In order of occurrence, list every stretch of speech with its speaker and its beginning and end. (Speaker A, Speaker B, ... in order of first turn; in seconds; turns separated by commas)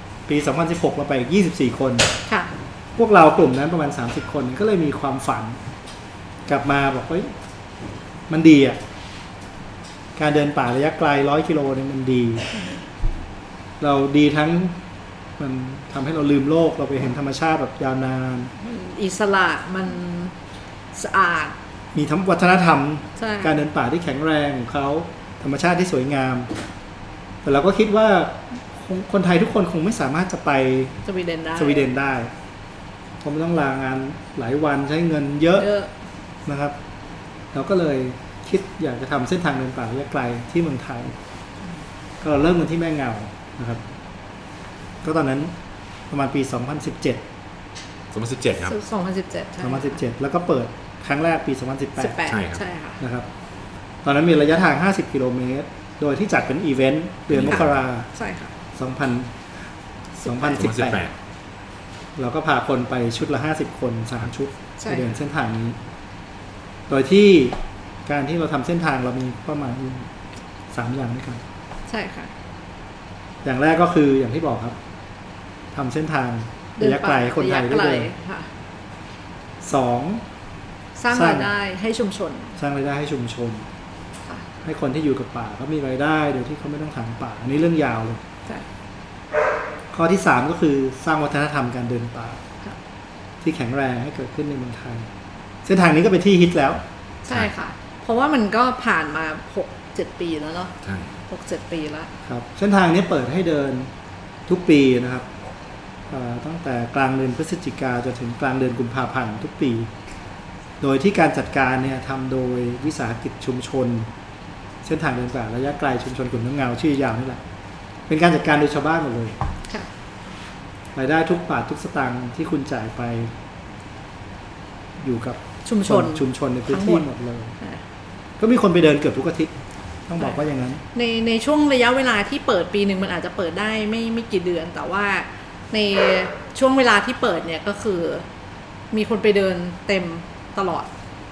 Speaker A: 0.3-2.1, Speaker A: 3.0-5.6, Speaker A: 6.5-7.3, Speaker A: 8.3-8.8, Speaker A: 10.2-12.5, Speaker A: 13.8-14.8, Speaker A: 15.4-18.5, Speaker B: 18.6-20.3, Speaker B: 20.9-21.6, Speaker A: 21.9-26.5, Speaker B: 23.2-23.6, Speaker A: 27.4-31.0, Speaker B: 31.1-31.9, Speaker A: 31.6-32.3, Speaker A: 33.2-35.7, Speaker B: 35.6-35.9, Speaker A: 36.5-36.8, Speaker A: 37.5-41.1, Speaker A: 42.2-43.8, Speaker A: 45.0-45.5, Speaker A: 46.1-47.3, Speaker C: 48.1-48.8, Speaker B: 48.6-50.0, Speaker A: 49.6-52.2, Speaker B: 52.0-53.0, Speaker C: 52.3-52.6, Speaker A: 53.0-53.3, Speaker A: 54.0-58.1, Speaker B: 57.3-58.5, Speaker C: 57.3-57.8, Speaker A: 58.8-59.4, Speaker A: 60.2-61.0, Speaker C: 60.5-61.1, Speaker A: 62.2-65.8, Speaker B: 64.8-65.1, Speaker A: 66.9-70.1, Speaker A: 70.7-71.4, Speaker B: 71.9-72.3, Speaker A: 73.4-74.8, Speaker A: 75.7-78.1, Speaker B: 76.8-78.5, Speaker A: 79.6-80.2, Speaker B: 81.0-82.6, Speaker A: 81.1-81.5, Speaker A: 82.6-83.7, Speaker A: 84.6-88.2, Speaker A: 89.9-92.4, Speaker A: 93.4-95.1, Speaker A: 95.7-96.8, Speaker B: 97.2-100.7, Speaker B: 101.3-102.1, Speaker A: 102.2-103.9, Speaker A: 104.5-105.3, Speaker A: 106.1-109.9, Speaker A: 110.8-114.1, Speaker A: 114.8-117.4, Speaker A: 118.1-119.4, Speaker A: 121.0-123.3, Speaker A: 125.0-127.5, Speaker B: 125.7-127.0, Speaker A: 128.4-129.5, Speaker A: 130.1-130.8, Speaker B: 130.9-138.3, Speaker B: 138.9-140.9